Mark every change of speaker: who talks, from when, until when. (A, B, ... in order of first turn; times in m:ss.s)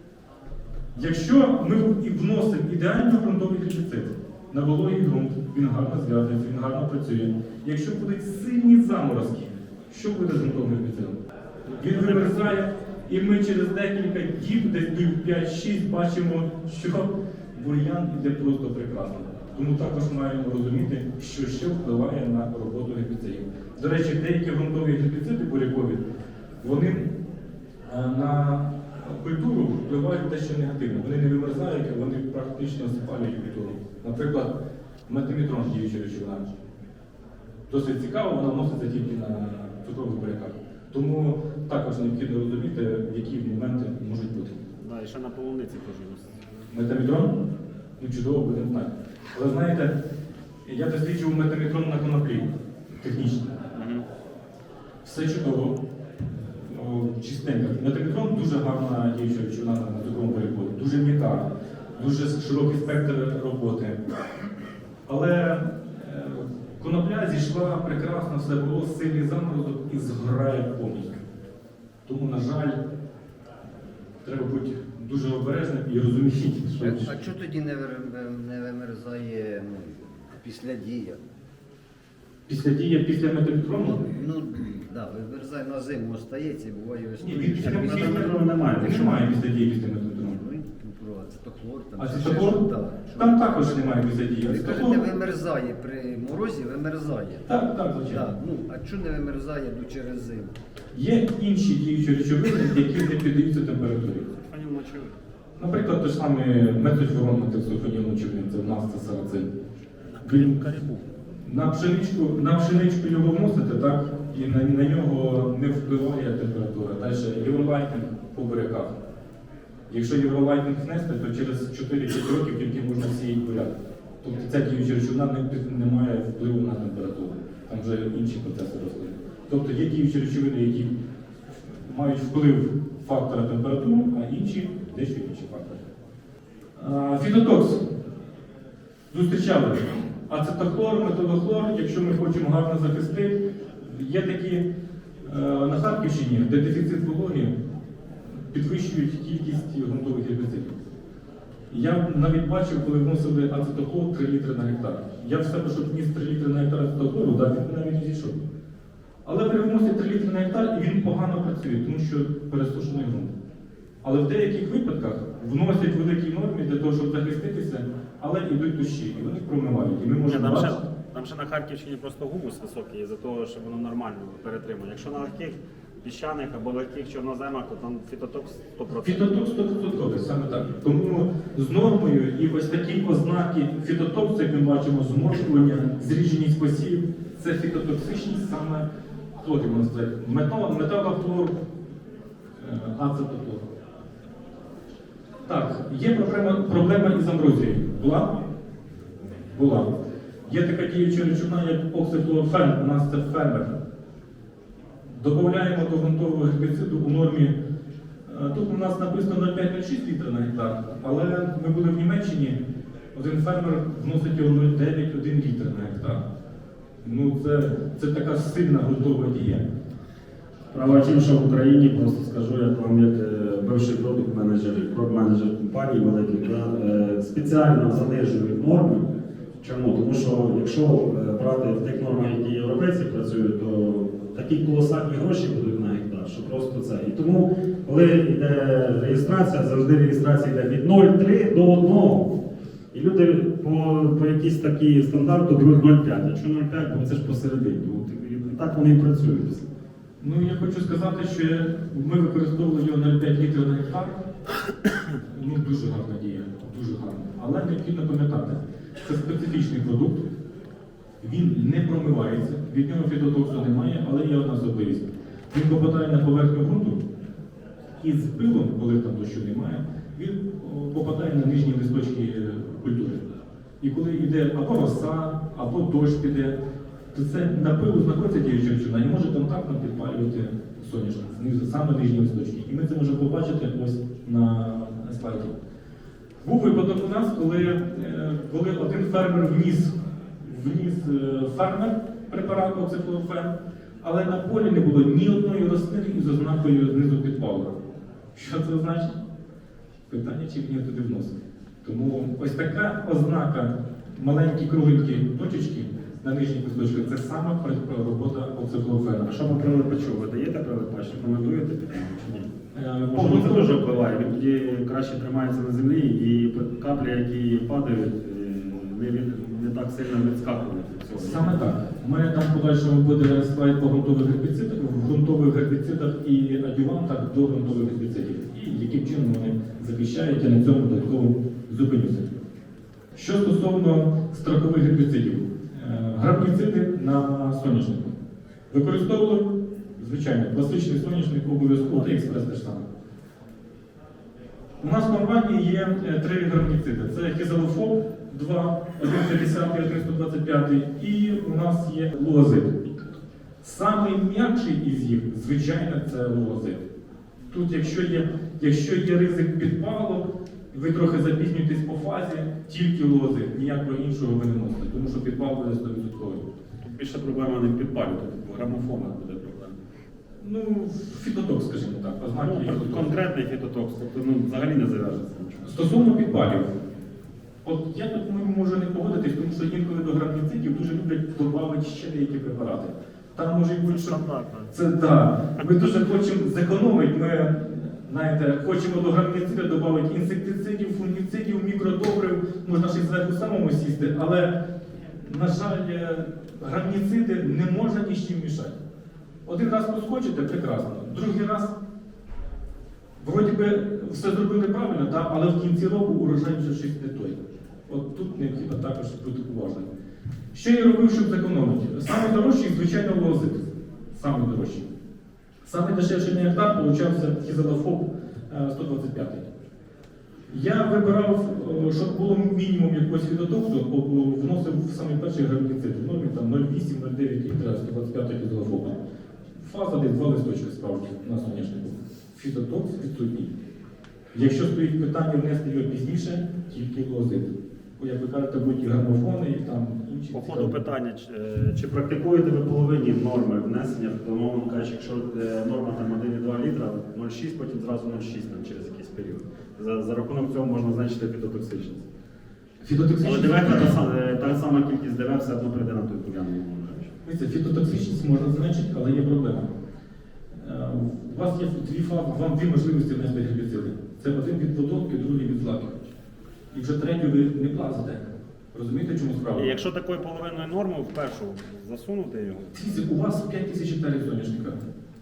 0:00.9-0:11.2 A
0:11.7-0:12.5 B
0:11.8-0:26.0 A
0:26.6-0:27.2 A
0:27.9-0:34.6 A
0:35.1-0:36.5 A
0:37.7-0:44.7 A
0:44.8-0:46.3 B
0:46.7-0:47.4 A
0:48.0-0:50.0 A
0:50.6-0:53.6 A
0:53.7-0:54.1 B
0:55.0-0:55.8 A
0:56.6-1:04.0 A
1:05.1-1:11.2 A
1:12.1-1:12.8 A
1:14.2-1:17.2 A
1:16.8-1:21.2 C
1:22.5-1:24.2 A
1:23.8-1:29.4 C
1:27.2-1:30.4 A
1:27.6-1:29.3 B
1:30.1-1:33.8 C
1:32.0-1:32.6 A
1:33.2-1:35.0 A
1:34.4-1:37.5 C
1:37.5-1:38.3 A
1:38.0-1:40.5 C
1:40.9-1:44.3 A
1:44.4-1:45.2 B
1:45.6-1:49.5 A
1:50.2-1:51.0 B
1:50.2-1:50.6 A
1:51.4-1:59.0 A
1:59.9-2:10.9 A
2:11.7-2:15.8 A
2:16.8-2:17.8 A
2:19.1-2:24.7 A
2:25.2-2:27.6 A
2:28.5-2:30.8 A
2:31.7-2:38.5 A
2:39.2-2:43.3 A
2:44.0-2:50.8 A
2:50.2-2:59.4 B
2:58.9-3:08.9 A
3:09.4-3:11.6 A
3:12.6-3:13.6 A
3:15.5-3:18.4 A
3:19.5-3:19.9 A
3:20.4-3:23.7 A
3:25.1-3:27.5 A
3:28.3-3:32.6 A
3:33.1-3:36.2 A
3:37.0-3:39.6 A
3:40.7-4:02.3 B
4:02.9-4:09.7 B
4:10.2-4:14.2 A
4:15.3-4:20.3 A
4:21.2-4:27.0 A
4:28.0-4:33.2 A
4:33.8-4:36.6 A
4:37.1-4:45.6 A
4:46.4-4:57.8 A
4:58.3-4:59.2 A
5:00.1-5:09.5 A
5:09.3-5:12.5 B
5:12.7-5:13.7 A
5:13.1-5:21.7 B
5:21.1-5:32.3 A
5:33.2-5:38.2 A
5:38.7-5:42.9 A
5:44.8-5:52.8 A
5:53.6-5:56.9 A
5:57.5-6:06.5 A
6:06.8-6:09.8 B
6:10.4-6:13.1 A
6:12.4-6:15.7 B
6:15.6-6:16.7 A
6:17.6-6:24.2 A
6:23.8-6:24.7 B
6:24.7-6:34.6 A
6:35.2-6:38.8 A
6:39.4-6:41.8 A
6:43.2-6:49.9 A
6:50.5-6:54.9 A
6:55.6-6:59.5 A
7:00.5-7:09.0 A
7:09.6-7:13.5 A
7:14.3-7:20.8 A
7:20.3-7:32.1 B
7:32.8-7:33.9 A
7:33.2-7:37.1 B
7:37.2-7:39.7 A
7:40.5-7:46.1 A
7:46.7-7:49.7 A
7:49.6-7:52.7 B
7:52.7-7:54.8 A